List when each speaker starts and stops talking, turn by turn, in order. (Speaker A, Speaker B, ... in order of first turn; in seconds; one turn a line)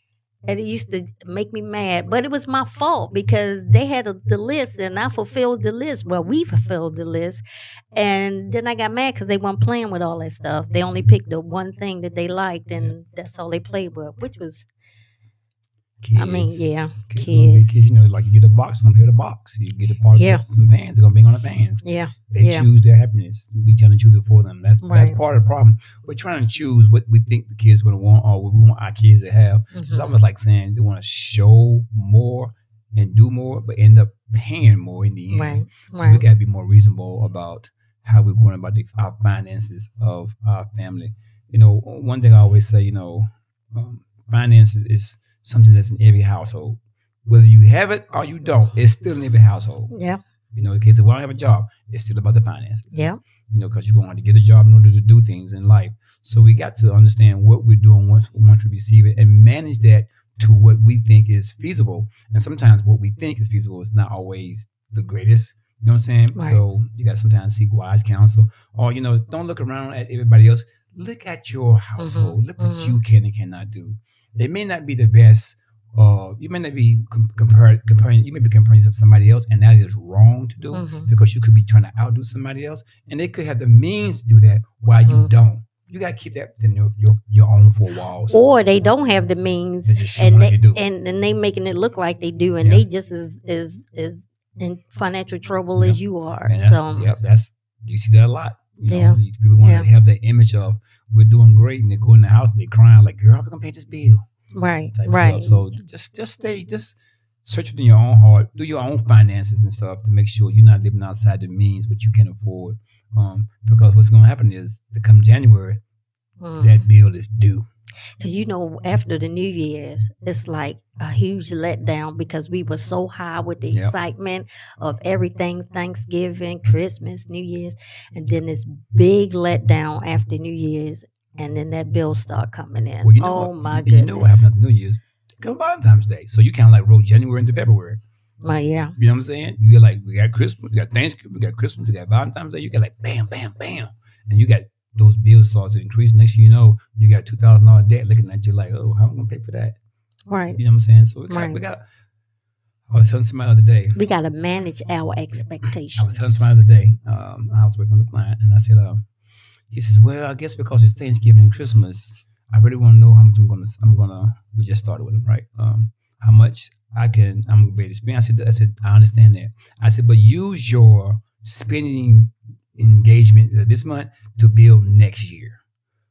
Speaker A: 0.5-14.7
Speaker B: 16.0-49.9
Speaker A: 16.1-17.7
Speaker A: 20.1-20.4
Speaker A: 21.8-22.7
Speaker A: 24.8-25.2
Speaker A: 29.7-30.2
Speaker A: 35.3-36.2
Speaker A: 49.9-50.2
Speaker B: 50.5-88.4
Speaker A: 52.9-53.2
Speaker A: 66.3-66.6
Speaker A: 72.0-73.0
Speaker A: 80.7-81.1
Speaker A: 85.1-85.3
Speaker A: 88.3-97.1
Speaker B: 89.8-90.8
Speaker B: 95.8-104.2
Speaker A: 98.9-99.8
Speaker A: 104.5-105.7
Speaker B: 104.9-115.8
Speaker A: 116.4-116.8
Speaker B: 116.6-117.6
Speaker A: 118.2-134.5
Speaker B: 123.7-124.0
Speaker B: 133.0-138.0
Speaker A: 138.4-138.9
Speaker B: 139.0-149.8
Speaker A: 150.3-150.6
Speaker B: 150.6-151.8
Speaker A: 151.3-151.6
Speaker B: 152.9-154.0
Speaker A: 153.9-156.5
Speaker B: 155.9-159.0
Speaker B: 159.7-175.6